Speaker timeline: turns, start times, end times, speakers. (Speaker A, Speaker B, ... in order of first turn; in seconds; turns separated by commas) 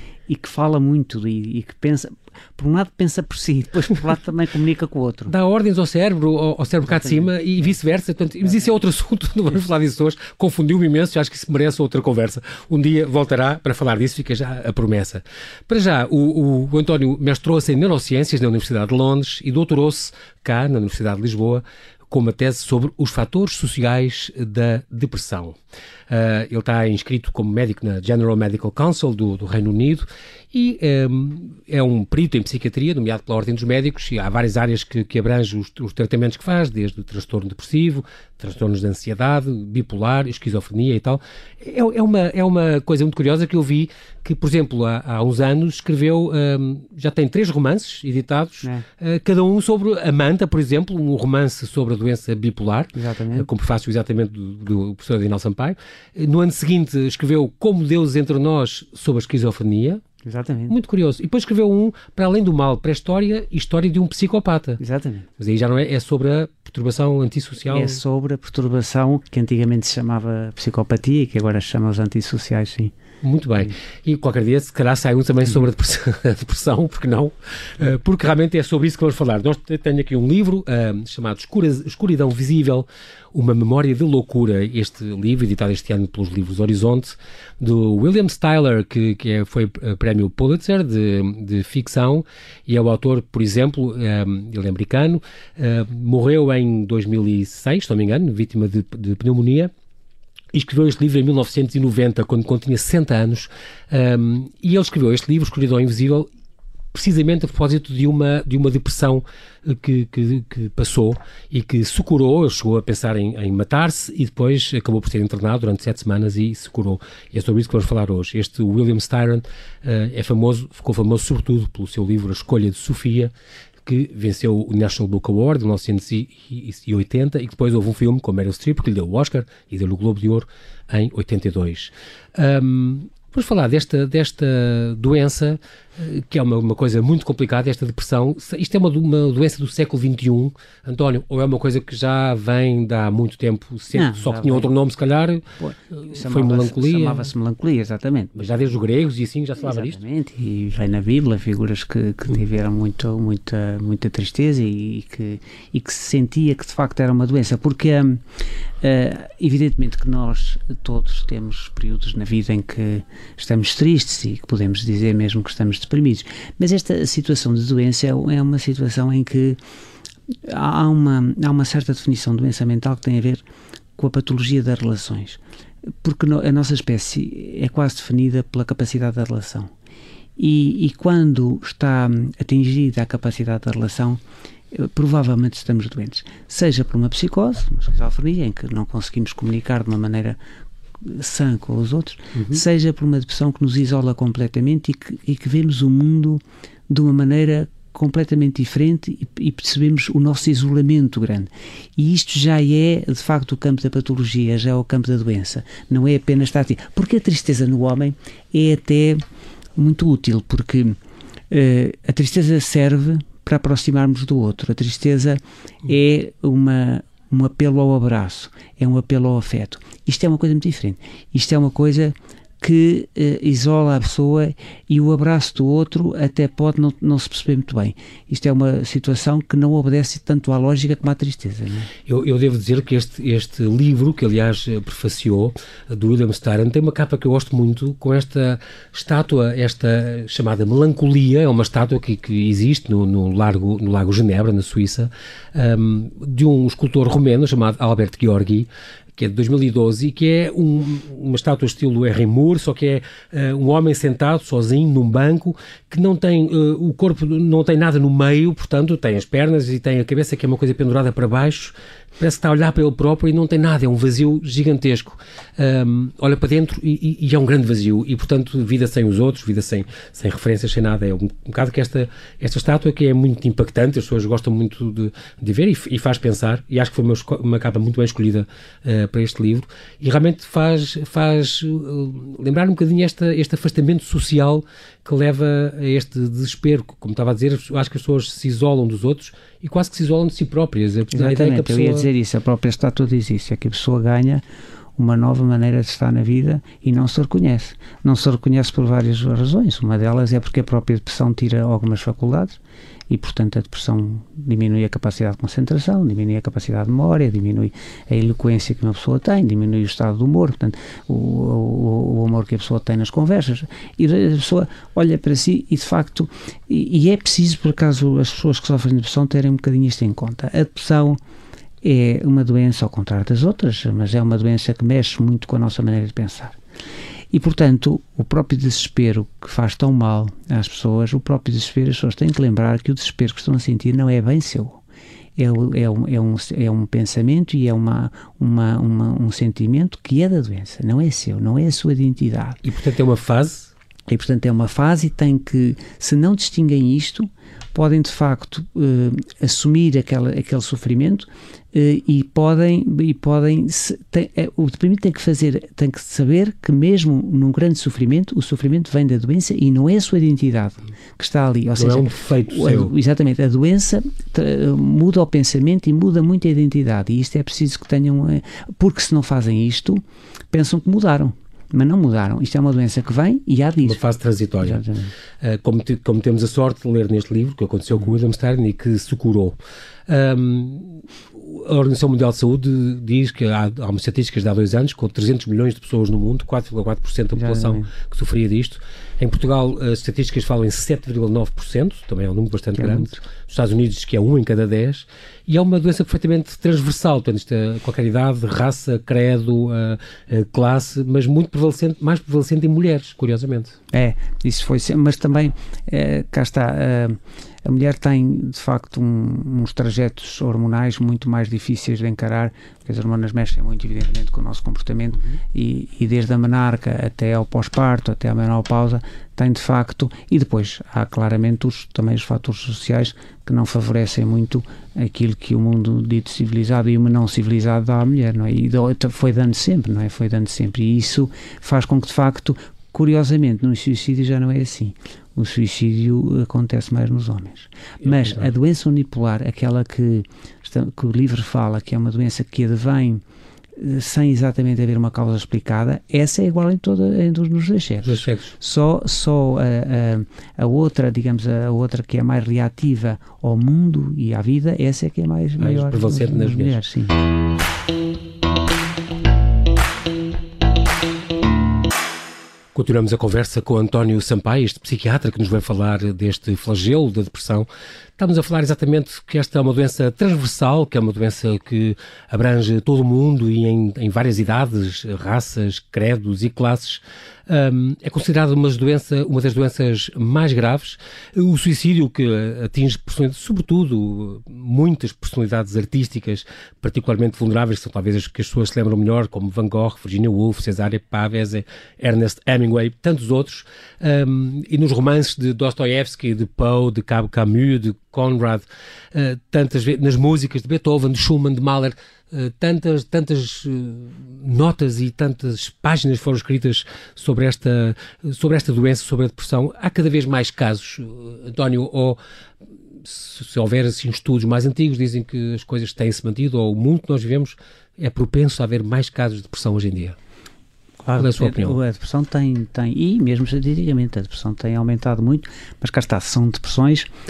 Speaker A: 0.3-5.3, Speaker B: 5.3-25.6, Speaker A: 6.9-7.3, Speaker B: 26.1-60.0, Speaker A: 53.0-53.5, Speaker A: 60.2-60.8, Speaker B: 60.7-64.8, Speaker A: 64.8-65.3, Speaker B: 65.4-68.0, Speaker A: 67.7-72.9, Speaker B: 73.2-99.7, Speaker B: 100.5-106.3, Speaker B: 106.9-123.3, Speaker B: 123.8-147.3, Speaker A: 143.9-144.7, Speaker A: 145.6-148.4, Speaker B: 148.3-150.0, Speaker A: 149.6-158.2, Speaker A: 158.8-169.6, Speaker A: 170.4-173.4, Speaker A: 174.0-175.4, Speaker A: 176.0-179.7, Speaker A: 180.4-184.2, Speaker A: 184.7-190.4, Speaker A: 191.0-209.2, Speaker B: 192.4-192.6, Speaker A: 209.8-211.0, Speaker A: 211.5-231.9, Speaker B: 232.1-292.1, Speaker A: 291.1-294.4, Speaker A: 295.0-321.2, Speaker A: 321.8-326.6, Speaker A: 327.3-334.8, Speaker A: 335.4-342.6, Speaker B: 342.6-343.7, Speaker A: 344.1-374.0, Speaker B: 361.8-362.9, Speaker B: 373.8-374.8, Speaker A: 374.6-375.1, Speaker B: 375.4-379.6, Speaker B: 380.1-403.8, Speaker A: 387.4-387.9, Speaker A: 392.8-393.2, Speaker A: 403.9-443.2, Speaker B: 438.0-438.4, Speaker A: 443.8-457.2, Speaker B: 448.0-448.5, Speaker B: 455.6-456.8, Speaker B: 462.8-512.2, Speaker B: 513.0-520.2, Speaker A: 521.0-527.1, Speaker B: 521.2-521.8